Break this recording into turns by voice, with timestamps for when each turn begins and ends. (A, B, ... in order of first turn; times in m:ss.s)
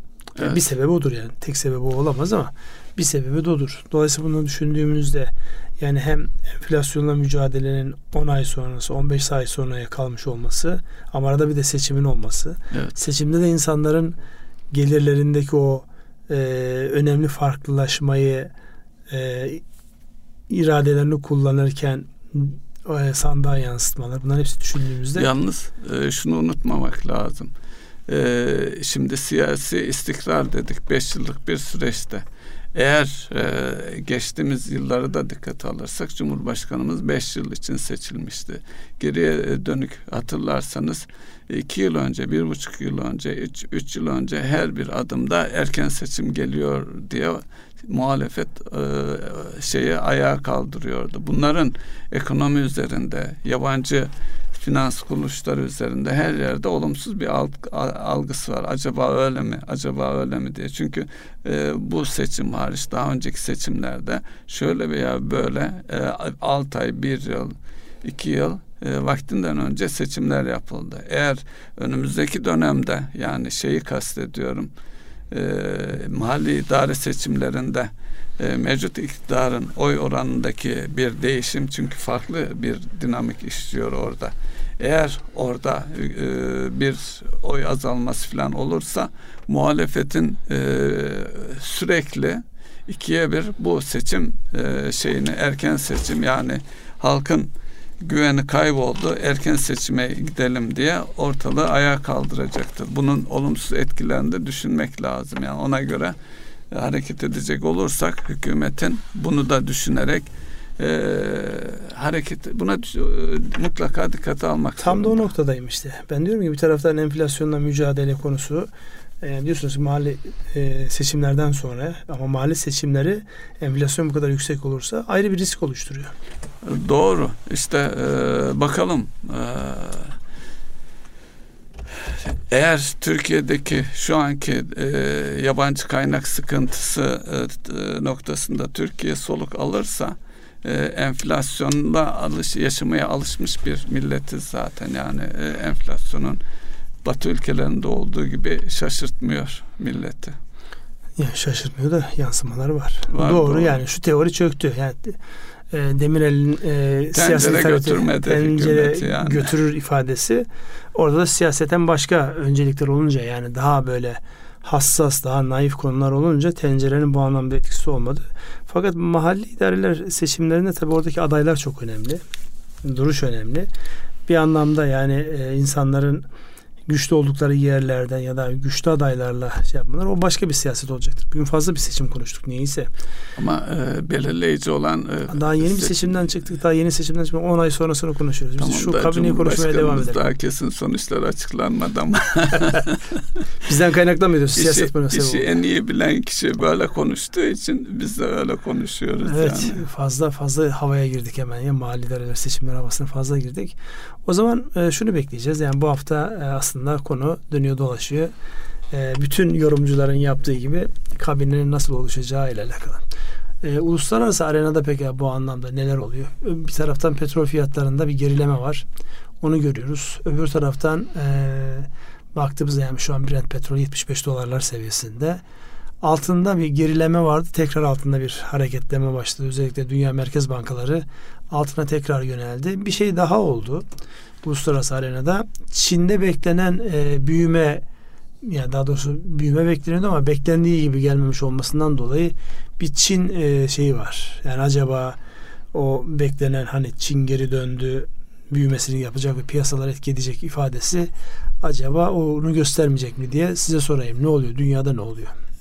0:00.4-0:14.2 A
0:14.7-0:18.5 A
0:19.1-0:19.6 A
0:20.5-0:25.3 A
0:25.2-0:27.5 B
0:28.1-1:14.7 B
1:15.3-1:46.2 B
1:46.7-1:55.2 B
1:54.8-1:58.7 A
1:59.2-2:06.1 A
2:06.6-2:10.2 B
2:11.9-2:26.4 B
2:27.0-2:30.4 B
2:31.2-2:35.2 A
2:33.1-2:33.8 B
2:35.7-2:52.2 A
2:37.1-2:39.5 B
2:52.8-2:53.7 A
2:54.3-2:56.2 A
2:56.9-3:02.9 A
3:03.4-3:06.1 B
3:05.3-3:10.2 A
3:08.6-3:13.4 B
3:13.6-3:15.5 A
3:14.6-3:19.8 B
3:19.2-3:28.3 A
3:28.9-3:33.0 A
3:33.6-3:38.8 A
3:39.4-3:45.4 A
3:46.0-3:53.8 A
3:54.4-3:57.8 A
3:58.4-4:05.2 A
4:05.7-4:11.1 A
4:11.6-4:15.3 A